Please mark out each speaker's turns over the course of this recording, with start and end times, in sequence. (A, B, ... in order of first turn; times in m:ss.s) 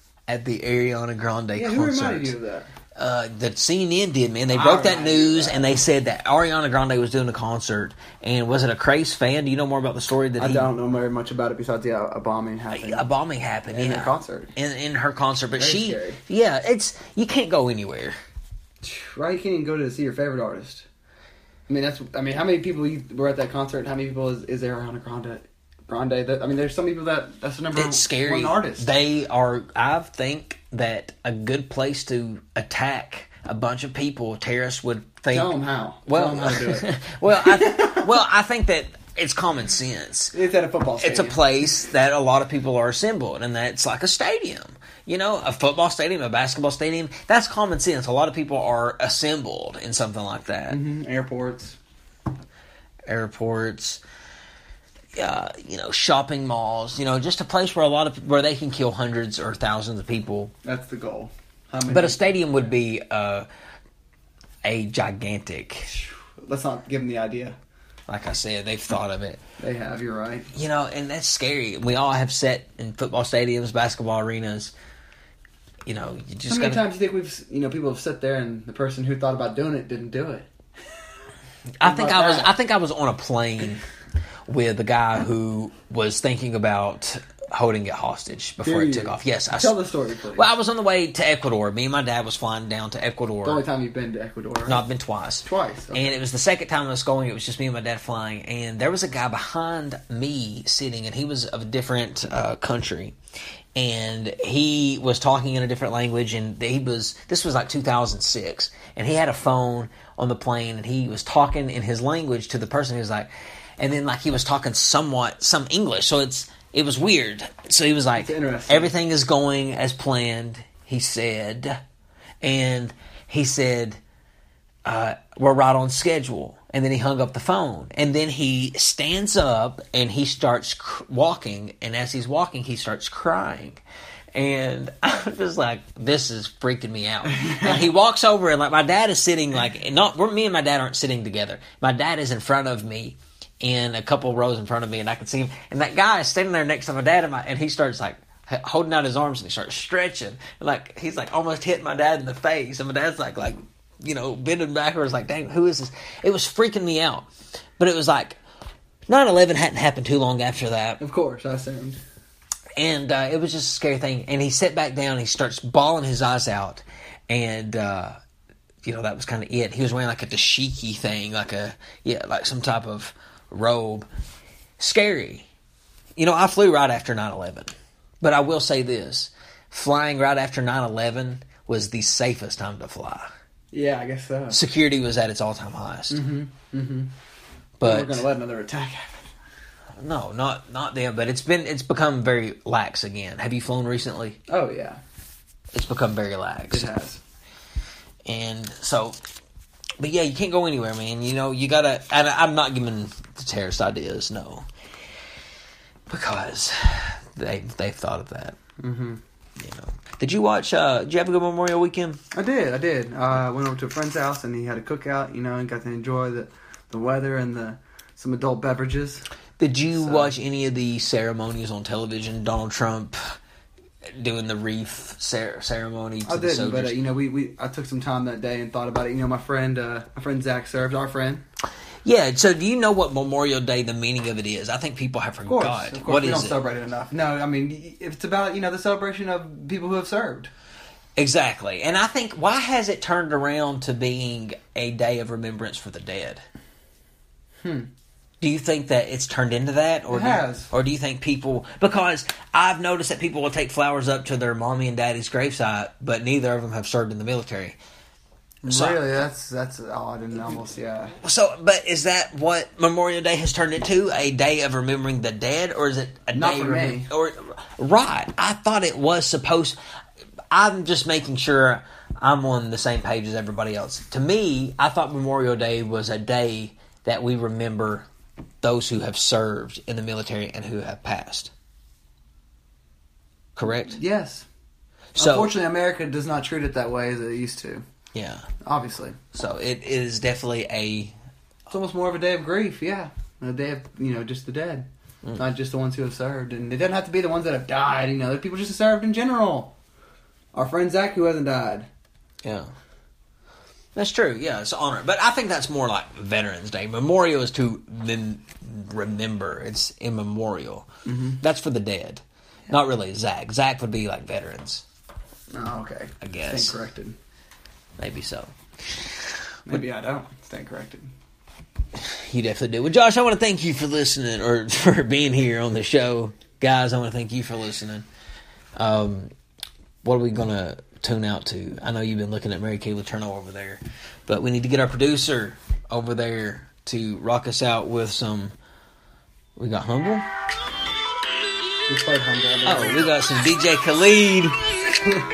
0:00.3-0:02.3 A
0:01.5-0:02.7 B
0:03.0-0:10.7 A
0:04.5-0:05.8 B
0:10.4-0:13.1 B
0:12.7-0:18.2 A
0:13.7-0:14.5 B
0:15.5-0:16.2 B
0:18.8-0:20.9 B
0:21.7-0:28.9 B
0:27.8-0:40.3 A
0:35.3-0:38.1 B
0:40.3-0:41.4 B
0:41.0-0:50.8 A
0:50.7-0:51.8 B
0:53.1-0:54.0 A
0:55.2-1:00.5 A
1:00.6-1:02.7 B
1:01.9-1:03.5 A
1:04.6-1:05.9 A
1:05.9-1:07.6 B
1:08.1-1:09.4 A
1:09.6-1:10.5 B
1:10.5-1:14.7 A
1:15.9-1:16.8 A
1:16.5-1:20.5 B
1:21.8-1:23.8 A
1:21.8-1:22.5 B
1:24.5-1:29.8 A
1:28.6-1:30.5 B
1:30.4-1:33.6 A
1:33.4-1:34.8 B
1:34.7-1:43.2 A
1:35.4-1:36.2 B
1:43.8-2:01.8 A
1:58.2-1:58.9 B
2:02.4-2:04.0 A
2:04.8-2:13.8 A
2:14.3-2:38.4 A
2:17.4-2:17.8 B
2:39.1-2:41.0 A
2:41.0-2:42.0 B
2:42.8-2:48.2 A
2:48.8-2:54.1 A
2:54.8-2:55.5 A
2:56.2-3:03.3 A
3:03.7-3:04.6 B
3:04.5-3:06.2 A
3:06.1-3:07.1 B
3:07.8-3:08.3 A
3:07.8-3:09.3 B
3:10.0-3:14.4 A
3:14.5-3:15.0 B
3:15.7-3:16.9 A
3:16.7-3:17.2 B
3:18.3-3:19.2 A
3:20.0-3:24.7 A
3:26.1-3:28.6 A
3:28.8-3:29.2 B
3:29.6-3:32.2 A
3:32.3-3:39.3 B
3:39.6-3:43.2 A
3:40.0-3:40.3 B
3:44.2-3:47.0 A
3:46.2-3:51.4 B
3:52.0-3:56.6 A
3:55.4-4:00.5 B
4:01.2-4:06.4 A
4:07.6-4:07.9 B
4:08.4-4:17.8 A
4:10.1-4:10.7 B
4:18.6-4:21.2 B
4:18.7-4:19.2 A
4:21.2-4:29.8 A
4:26.3-4:27.1 B
4:30.5-4:38.1 A
4:38.6-4:41.5 A
4:43.6-4:44.0 A
4:43.8-4:44.5 B
4:45.2-4:45.5 A
4:45.2-4:47.8 B
4:48.2-4:48.4 A
4:48.6-4:49.2 B
4:49.3-4:51.1 A
4:51.7-4:59.7 B
5:00.5-5:01.9 B
5:02.4-5:02.7 A
5:04.0-5:10.9 A
5:11.1-5:11.4 B
5:11.4-5:14.8 A
5:15.5-5:17.2 B
5:16.2-5:16.8 A
5:18.0-5:19.1 A
5:19.7-5:21.1 B
5:22.0-5:28.1 A
5:28.8-5:29.3 A
5:30.0-5:38.5 A
5:39.6-5:40.2 A
5:41.9-5:43.1 B
5:42.7-5:44.6 A